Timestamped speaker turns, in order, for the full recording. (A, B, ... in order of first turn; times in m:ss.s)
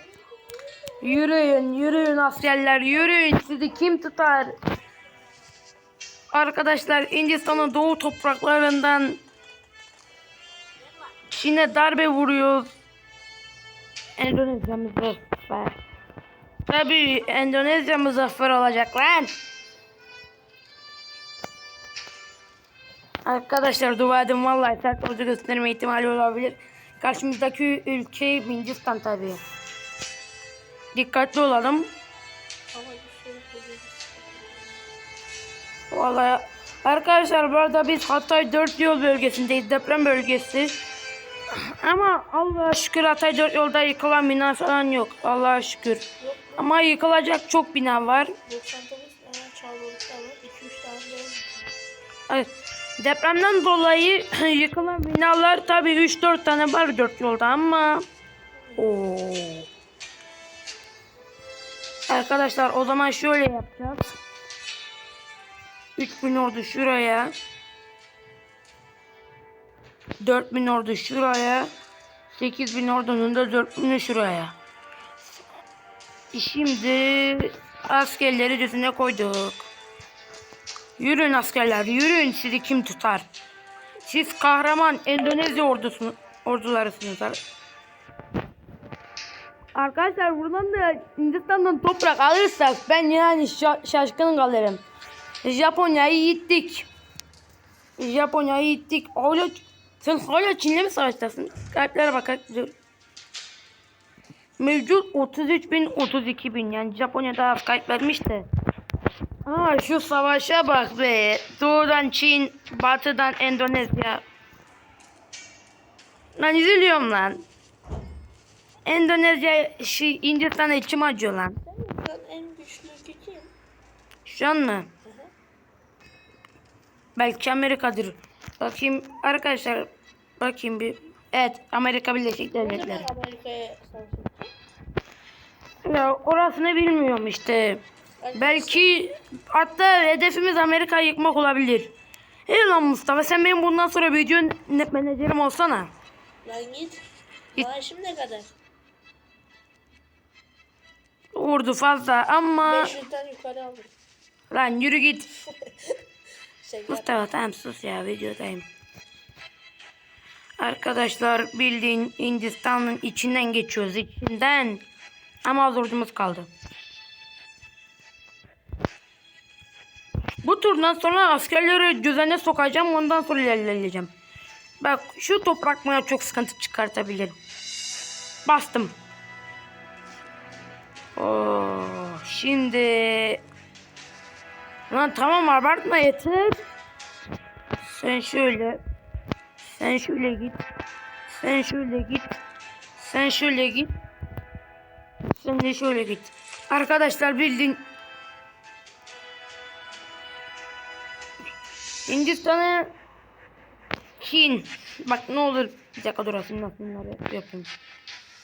0:01.0-0:04.5 A
0:06.3-0:09.2 A
0:11.3-0:12.8 A
0:14.2-0:15.8 A
0:16.7-0:19.3 A
0:23.2-0:29.4 A
0:30.9-0:31.9 A
0:32.7-0:34.7 B
0:35.9-0:40.8 A
0:41.5-0:46.0 A
0:46.2-0:46.8 B
0:46.6-0:48.3 A
0:48.5-0:51.6 B
0:52.3-0:58.0 A
0:58.8-0:59.7 A
1:02.1-1:04.1 A
1:06.0-1:07.3 A
1:10.2-1:11.7 A
1:12.4-1:14.6 A
1:16.3-1:19.7 A
1:21.0-1:23.3 A
1:24.1-1:27.4 A
1:29.8-1:34.8 A
1:35.4-1:36.9 A
1:38.0-1:42.7 A
1:44.6-1:48.5 A
1:49.5-1:54.2 A
1:56.4-1:57.4 A
1:58.9-2:01.6 A
2:01.7-2:03.5 B
2:04.2-2:04.9 A
2:07.2-2:13.1 A
2:12.6-2:14.5 B
2:15.8-2:17.8 A
2:18.2-2:19.0 B
2:18.4-2:21.9 A
2:22.5-2:25.9 A
2:26.4-2:27.0 B
2:27.5-2:28.5 B
2:31.4-2:32.9 A
2:32.6-2:33.9 B
2:34.5-2:35.3 A
2:35.6-2:36.0 B
2:36.6-2:37.1 B
2:36.9-2:38.7 A
2:40.6-2:44.8 A
2:45.4-2:46.5 A
2:50.4-2:54.1 A
2:54.8-2:57.4 A
2:58.5-2:58.9 A
3:01.2-3:03.4 A
3:04.9-3:06.6 A
3:07.8-3:08.8 A
3:09.6-3:10.6 A
3:11.3-3:12.3 A
3:13.0-3:13.9 A
3:15.3-3:17.8 A
3:22.1-3:22.9 A
3:24.2-3:27.7 A